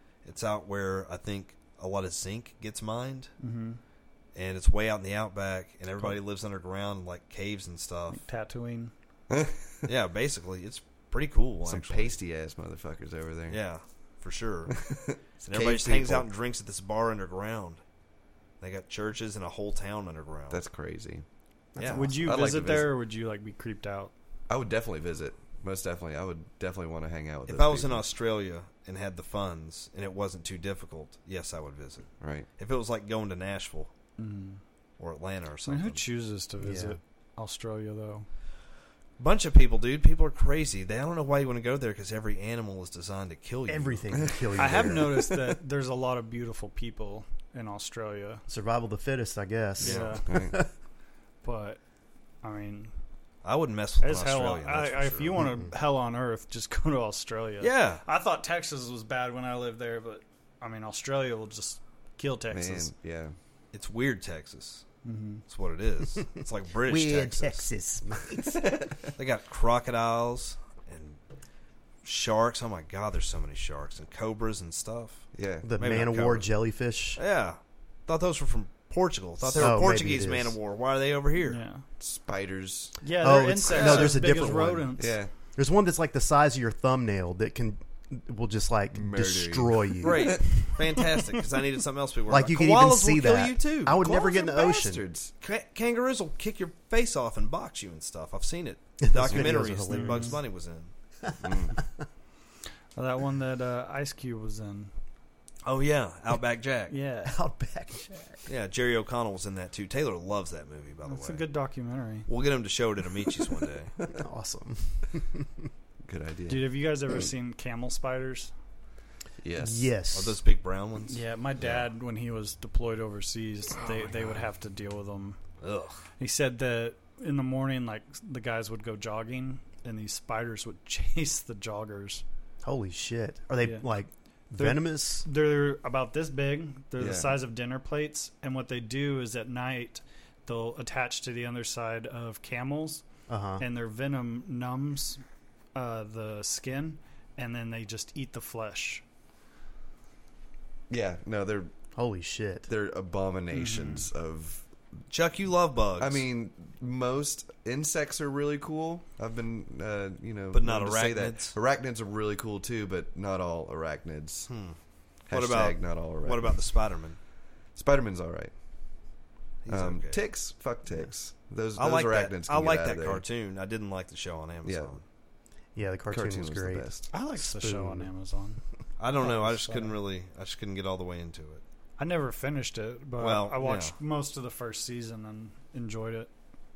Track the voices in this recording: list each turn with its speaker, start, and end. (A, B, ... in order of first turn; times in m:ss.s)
0:00.2-0:03.3 A
0:03.4-0:03.8 B
0:04.3-0:08.2 A
0:08.1-0:08.9 B
0:09.3-0:09.8 C
0:09.8-0:12.1 A
0:11.6-0:13.6 C
0:13.5-0:14.8 A
0:14.7-0:16.3 C
0:15.4-0:17.8 A
0:18.6-0:20.6 A
0:20.5-0:21.2 C
0:21.7-0:22.2 D
0:21.8-0:22.0 A
0:21.9-0:24.1 B
0:22.1-0:23.0 C
0:24.5-0:28.0 C
0:27.5-0:33.9 A
0:32.2-0:32.4 C
0:34.2-0:34.6 B
0:35.0-0:36.0 A
0:35.6-0:38.3 B
0:36.6-0:37.0 D
0:39.2-0:44.3 A
0:43.7-0:45.3 D
0:44.5-0:48.4 B
0:48.5-0:50.7 D
0:49.8-0:50.2 A
0:49.8-0:50.5 B
0:50.3-0:50.5 C
0:51.4-0:51.8 B
0:52.4-0:52.9 B
0:53.4-0:55.4 A
0:54.0-1:02.9 B
0:55.4-0:55.7 D
0:57.6-0:58.0 A
1:02.5-1:03.3 C
1:03.7-1:04.8 A
1:05.0-1:05.4 B
1:05.5-1:07.7 A
1:06.8-1:08.6 D
1:08.5-1:09.1 C
1:09.2-1:11.2 A
1:12.0-1:16.5 A
1:15.3-1:15.7 C
1:15.6-1:17.2 D
1:17.2-1:21.6 A
1:19.5-1:20.6 D
1:21.4-1:21.8 B
1:22.0-1:23.0 C
1:23.0-1:25.1 B
1:23.2-1:25.0 D
1:23.7-1:24.2 A
1:25.0-1:25.3 C
1:25.5-1:30.4 D
1:28.9-1:30.4 C
1:30.0-1:34.0 A
1:30.3-1:31.0 B
1:32.3-1:35.0 D
1:34.0-1:35.3 C
1:35.4-1:40.9 A
1:39.0-1:40.4 D
1:39.9-1:40.4 B
1:41.2-1:41.8 D
1:41.4-1:41.7 C
1:42.9-1:44.9 B
1:45.6-1:46.9 A
1:46.9-1:47.4 B
1:47.2-1:48.4 D
1:48.5-1:51.4 A
1:51.0-1:52.3 B
1:52.3-1:53.9 A
1:54.1-1:55.6 D
1:56.0-1:56.6 C
1:56.5-1:58.5 B
1:59.4-1:59.9 C
1:59.6-2:00.4 D
2:00.1-2:01.2 A
2:01.1-2:05.4 B
2:05.6-2:06.0 A
2:06.2-2:12.2 B
2:12.6-2:15.2 D
2:14.5-2:23.0 B
2:17.0-2:17.4 C
2:23.3-2:23.6 D
2:23.6-2:25.2 B
2:25.7-2:29.0 B
2:30.9-2:31.7 C
2:31.9-2:32.7 D
2:32.7-2:34.6 C
2:33.5-2:34.1 B
2:35.1-2:36.2 A
2:36.0-2:44.5 C
2:40.5-2:41.6 A
2:44.5-2:44.8 A
2:45.3-2:46.6 C
2:45.3-2:47.2 A
2:47.7-2:48.5 C
2:49.6-2:50.2 A
2:49.7-2:53.2 C
2:51.8-2:55.0 A
2:54.6-2:55.0 C
2:55.8-2:58.1 D
2:56.1-2:57.0 C
2:57.1-2:58.6 B
2:59.0-3:01.6 A
2:59.2-3:00.0 B
3:02.0-3:06.3 B
3:03.2-3:03.9 A